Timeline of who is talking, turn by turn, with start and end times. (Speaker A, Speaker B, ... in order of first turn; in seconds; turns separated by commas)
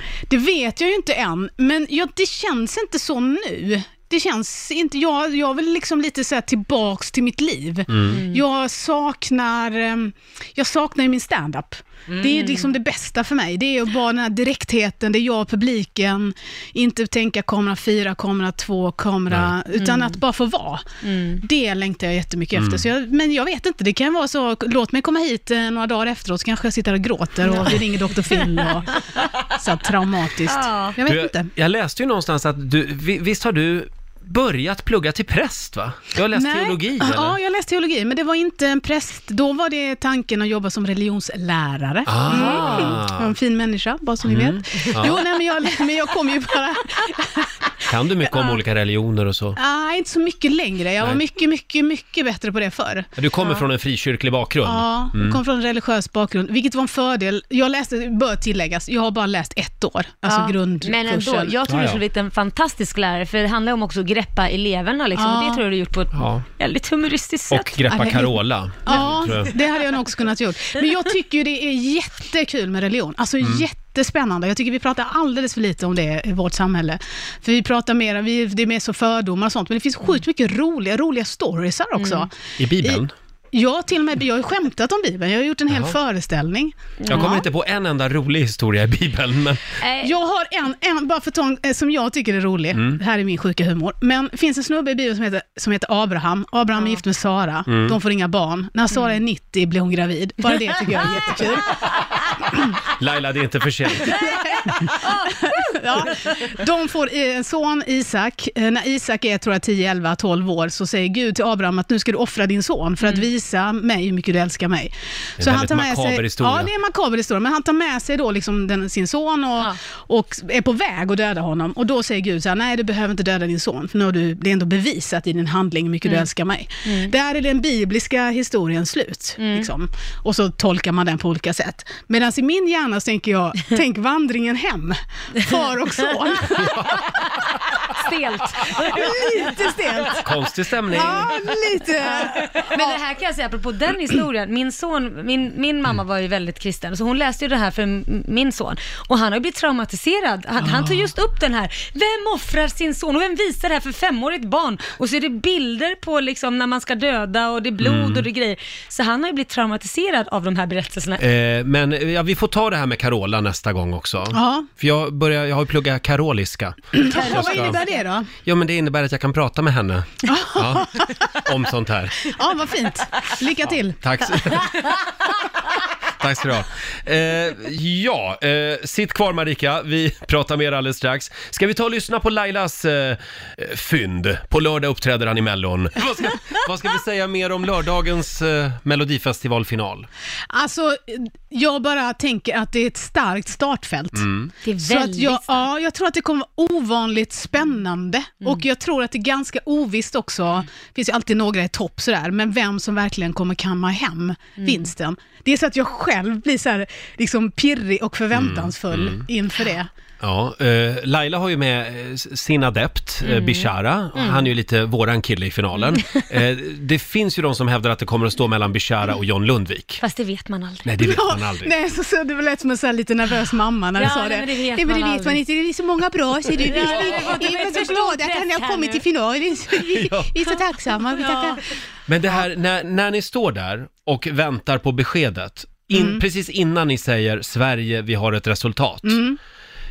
Speaker A: 0.3-20.8, Speaker B: 7.9-8.2, Speaker C: 8.1-8.4, Speaker C: 12.1-12.7, Speaker C: 19.8-20.2, Speaker C: 21.0-21.4, Speaker A: 21.4-29.0, Speaker B: 22.5-22.9, Speaker C: 27.4-27.8, Speaker C: 28.4-29.3, Speaker A: 29.6-31.5, Speaker C: 30.4-31.0, Speaker B: 31.0-37.4, Speaker A: 36.3-47.5, Speaker B: 42.0-43.3, Speaker C: 42.2-43.0, Speaker B: 44.2-45.2, Speaker B: 47.9-49.6, Speaker A: 49.5-53.1, Speaker B: 53.2-55.4, Speaker A: 54.6-61.5, Speaker C: 60.2-68.2, Speaker B: 61.7-62.0, Speaker A: 65.1-65.6, Speaker B: 66.1-66.4, Speaker B: 67.5-69.5, Speaker A: 67.9-82.3, Speaker C: 68.9-69.2, Speaker B: 73.4-73.7, Speaker C: 82.0-82.3, Speaker B: 82.6-83.1, Speaker A: 82.8-87.4, Speaker B: 85.7-86.0, Speaker C: 87.0-87.5, Speaker B: 87.1-89.8, Speaker C: 89.8-90.1, Speaker A: 90.0-101.8, Speaker B: 92.7-93.0, Speaker B: 97.7-98.0, Speaker C: 98.9-99.2, Speaker C: 100.6-101.5, Speaker B: 102.9-104.1, Speaker C: 104.0-106.4, Speaker A: 104.1-137.0, Speaker C: 113.0-113.3, Speaker B: 115.4-116.7, Speaker C: 126.8-127.1, Speaker C: 129.4-129.7, Speaker B: 136.6-137.0, Speaker C: 137.8-139.5, Speaker A: 138.8-140.2, Speaker B: 140.2-141.3, Speaker A: 140.9-143.0, Speaker C: 141.0-141.3, Speaker C: 142.0-161.2, Speaker B: 157.8-158.2, Speaker B: 161.2-167.8, Speaker A: 164.3-164.7, Speaker A: 166.9-168.3, Speaker C: 167.1-167.9, Speaker B: 168.4-172.3, Speaker A: 170.2-171.1, Speaker A: 172.2-174.3, Speaker B: 174.0-174.8, Speaker B: 176.2-190.1, Speaker A: 190.5-209.9, Speaker B: 194.1-194.5, Speaker C: 194.6-195.7, Speaker C: 204.6-204.9, Speaker B: 208.3-209.2, Speaker B: 210.2-220.0, Speaker C: 213.2-214.5, Speaker C: 215.9-216.2, Speaker C: 220.0-220.9, Speaker B: 220.8-221.7, Speaker A: 221.0-231.6, Speaker C: 223.9-225.4, Speaker C: 226.5-229.0, Speaker B: 229.8-230.3, Speaker C: 231.1-231.6, Speaker B: 232.1-239.2, Speaker A: 235.9-236.2, Speaker A: 239.0-239.4